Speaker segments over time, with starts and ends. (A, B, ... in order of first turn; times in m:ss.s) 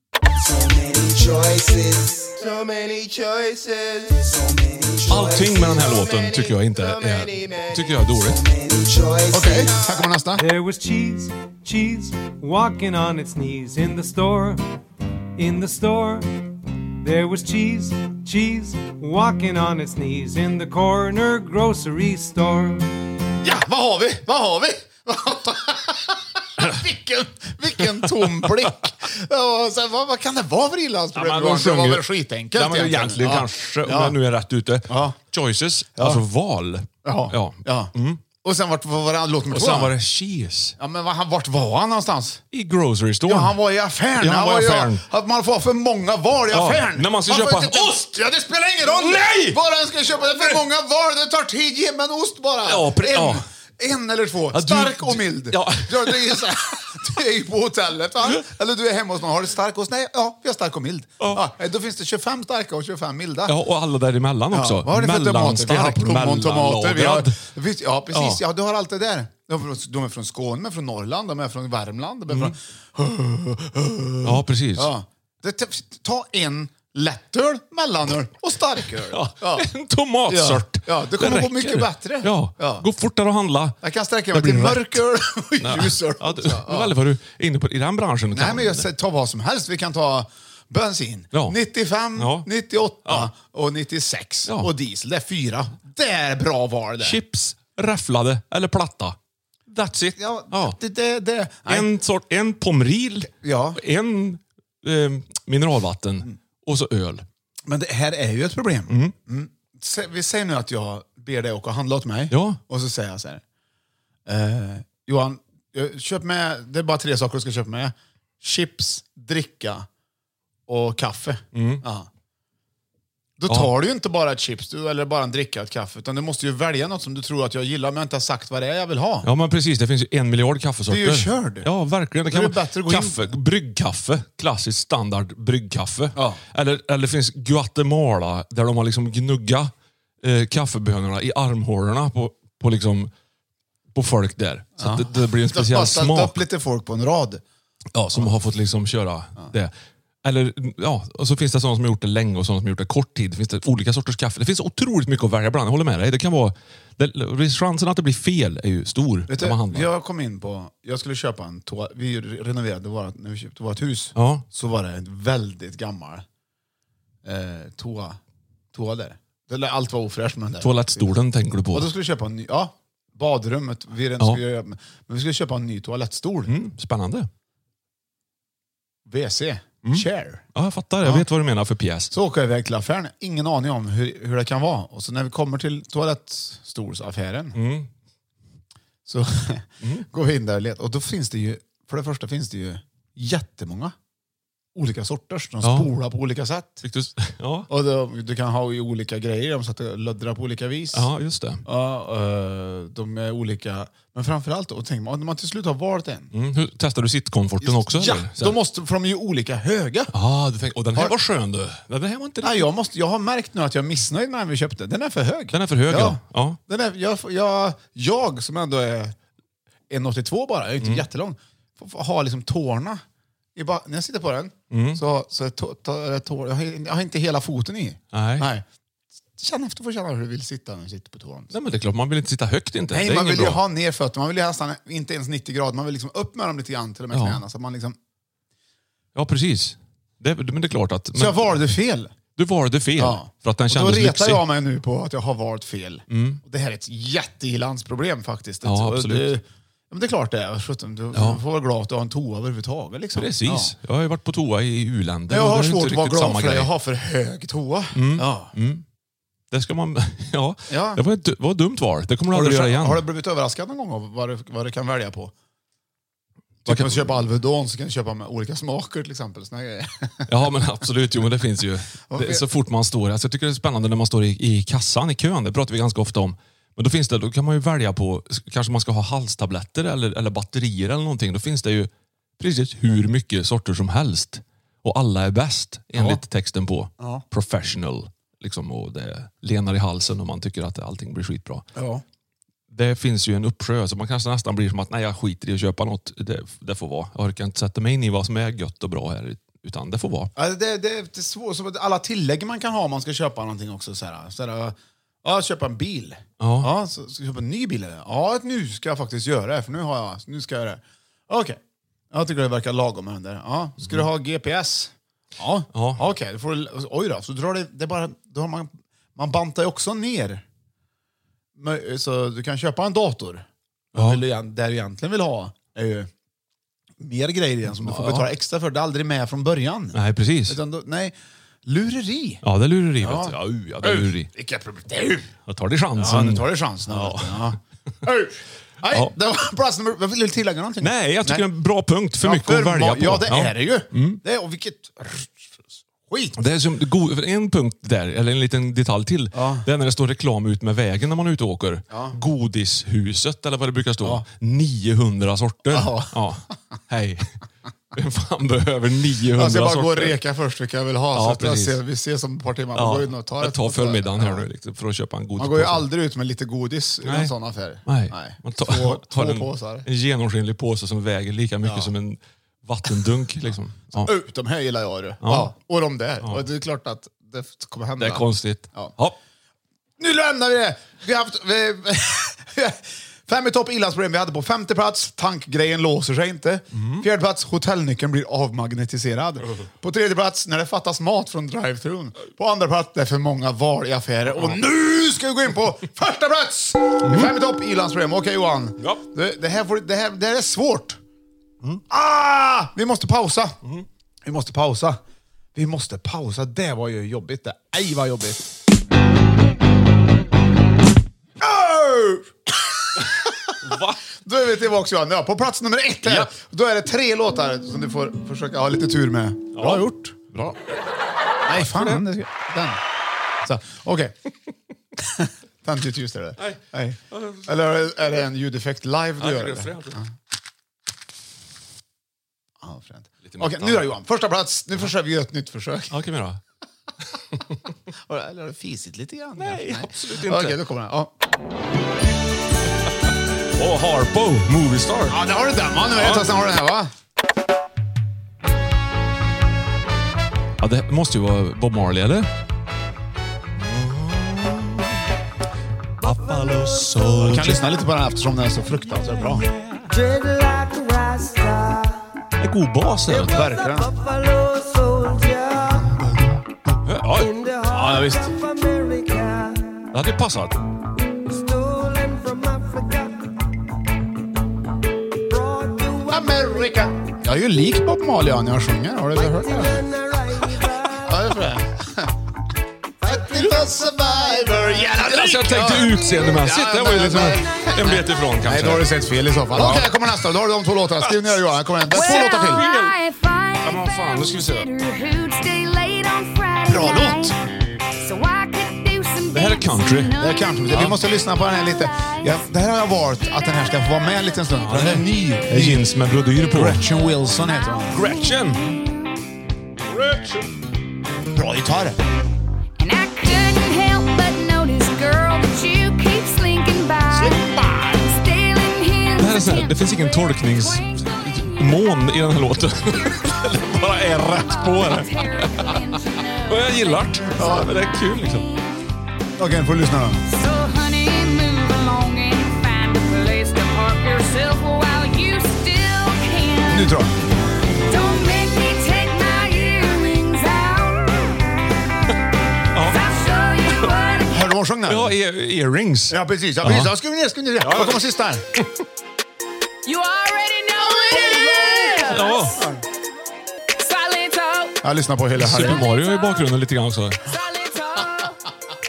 0:00.3-0:10.0 A
0:05.1-0:08.4 B
0:09.3-0:10.5 C
0:10.4-0:14.6 D
0:15.4-0:16.3 D
0:17.0-0:22.8 D
0:23.4-0:34.2 C
0:31.1-0:38.2 B
0:34.9-0:35.2 C
0:36.0-0:36.2 C
0:37.0-0:37.9 C
0:38.4-0:39.9 C
0:39.5-0:40.8 B
0:40.8-0:42.4 C
0:42.5-0:43.6 B
0:43.3-1:03.6 C
0:44.2-0:45.0 B
0:46.5-0:48.0 B
0:48.8-0:49.6 B
0:52.6-0:53.4 B
0:54.5-0:56.4 B
1:03.5-1:07.4 B
1:04.5-1:19.7 C
1:08.1-1:08.4 B
1:14.2-1:14.9 B
1:19.1-1:23.8 B
1:20.3-1:22.9 C
1:23.8-1:27.0 C
1:24.3-1:25.0 B
1:25.6-1:28.9 B
1:28.3-1:37.2 C
1:32.2-1:32.5 B
1:33.0-1:33.3 B
1:37.0-1:39.2 B
1:39.7-1:40.8 B
1:40.2-1:41.9 C
1:41.7-1:47.2 B
1:43.4-1:43.8 C
1:47.7-1:53.4 C
1:48.9-1:49.1 B
1:52.3-1:52.6 B
1:54.3-1:59.9 C
2:00.7-2:02.1 C
2:01.5-2:01.8 B
2:03.4-2:09.3 C
2:09.2-2:23.1 B
2:10.9-2:11.7 C
2:12.3-2:13.2 C
2:16.2-2:16.4 C
2:23.9-2:26.4 B
2:24.8-2:27.4 C
2:27.9-2:29.7 B
2:30.2-2:39.9 B
2:39.3-2:46.2 C
2:44.2-2:44.4 B
2:47.2-2:48.2 C
2:48.7-2:51.1 C
2:50.6-2:51.9 B
2:51.7-2:56.5 C
2:56.5-2:57.3 B
2:59.1-3:00.4 C
2:59.8-3:02.1 B
3:02.1-3:07.6 C
3:07.6-3:07.9 B
3:09.1-3:14.0 C
3:14.8-3:16.8 C
3:15.6-3:15.9 B
3:16.8-3:17.7 B
3:17.7-3:21.1 C
3:20.9-3:21.6 B
3:21.6-3:26.3 C
3:26.3-3:28.6 B
3:27.6-3:30.1 C
3:30.1-3:32.7 B
3:32.4-3:39.2 C
3:35.5-3:36.6 B
3:39.9-3:43.0 C
3:43.6-3:48.6 C
3:44.7-3:45.0 B
3:48.1-3:48.5 B
3:49.4-3:51.5 C
3:51.5-3:53.6 B
3:52.9-3:58.0 C
3:57.1-3:57.4 B
3:59.2-4:01.6 B
4:01.2-4:02.1 C
4:02.4-4:04.4 B
4:03.0-4:13.8 C
4:06.1-4:06.4 B
4:08.6-4:09.3 B
4:11.1-4:11.4 B
4:13.2-4:16.7 B
4:15.3-4:18.5 C
4:18.0-4:18.8 B
4:19.5-4:23.0 B
4:20.7-4:21.0 C
4:22.3-4:25.3 C
4:26.6-4:30.3 C
4:26.7-4:27.1 B
4:30.3-4:51.6 B
4:32.1-4:32.4 C
4:45.9-4:46.2 C
4:47.0-4:47.2 C
4:51.8-4:52.0 C
4:52.7-5:00.3 B
5:00.4-5:11.6 C
5:06.4-5:06.7 B
5:12.1-5:20.4 C
5:15.7-5:16.0 B
5:21.6-5:26.1 C
5:24.0-5:24.2 B
5:27.0-5:32.4 C
5:27.8-5:28.3 B
5:29.9-5:30.6 B
5:32.4-5:34.3 B
5:33.0-5:35.3 C
5:35.5-5:37.6 B
5:36.0-5:41.4 C
5:40.8-5:44.2 B
5:42.2-5:46.4 C
5:46.4-5:57.4 B
5:49.3-5:49.7 C
5:55.7-5:56.2 C
5:57.9-6:00.2 B
5:59.3-6:04.5 C
6:01.2-6:01.8 B
6:02.8-6:05.9 B
6:05.4-6:09.9 C
6:07.0-6:07.3 B
6:07.9-6:14.1 B
6:11.6-6:11.9 C
6:13.9-6:18.9 C
6:15.2-6:15.5 B
6:18.0-6:19.2 B
6:20.0-6:41.0 C
6:26.7-6:27.0 B
6:37.0-6:37.3 B
6:41.9-6:43.6 C
6:44.2-6:45.0 C
6:45.6-6:48.4 C
6:51.4-6:53.5 C
6:53.6-6:54.0 B
6:54.2-7:00.2 C
6:56.0-6:56.3 B
6:59.5-7:00.6 B
7:01.4-7:02.8 C
7:01.5-7:02.0 B
7:03.4-7:04.1 C
7:05.0-7:10.1 C
7:07.1-7:07.5 B
7:09.2-7:10.0 B
7:12.6-7:16.0 C
7:13.3-7:13.9 B
7:15.9-7:16.4 B
7:17.9-7:21.1 C
7:19.4-7:20.6 B
7:23.6-7:25.2 B
7:25.1-7:26.9 C
7:26.0-7:26.3 B
7:30.6-7:32.3 B
7:33.6-7:34.9 B
7:36.0-7:37.7 B
7:37.2-7:39.4 C
7:40.0-7:41.9 A
7:42.4-7:43.5 B
7:43.2-7:43.9 C
7:43.6-7:45.8 A
7:46.8-7:48.3 B
7:47.4-7:49.7 A
7:49.9-7:50.6 B
7:51.5-7:53.1 A
7:55.5-7:56.1 A
7:56.1-7:59.9 C
7:59.6-8:01.0 A
8:00.9-8:02.1 C
8:03.0-8:12.6 C
8:04.9-8:08.9 B
8:09.5-8:09.9 B
8:11.9-8:13.0 B
8:11.9-8:17.4 E
8:13.6-8:14.7 B
8:16.7-8:17.4 C
8:18.0-8:20.5 E
8:19.3-8:21.0 B
8:20.2-8:25.9 C
8:21.7-8:22.3 E
8:24.6-8:26.8 B
8:26.5-8:28.0 C
8:27.9-8:28.7 B
8:29.9-8:30.5 B
8:31.3-8:32.0 C
8:32.8-8:42.2 E
8:37.1-8:37.9 B
8:39.2-8:45.9 B
8:42.8-8:47.6 E
8:46.4-8:48.5 B
8:47.4-8:47.7 C
8:49.4-8:50.2 C
8:50.3-8:56.9 E
8:56.7-8:57.2 C
8:57.9-9:01.4 E
9:02.7-9:03.0 B
9:02.8-9:04.5 E
9:04.3-9:05.2 C
9:04.9-9:06.9 B
9:06.1-9:08.4 C
9:07.6-9:08.0 B
9:09.8-9:12.6 E
9:10.8-9:12.8 C
9:12.0-9:12.6 B
9:13.8-9:14.8 E
9:14.8-9:15.8 C
9:15.4-9:17.3 B
9:15.8-9:16.5 E
9:17.2-9:18.4 E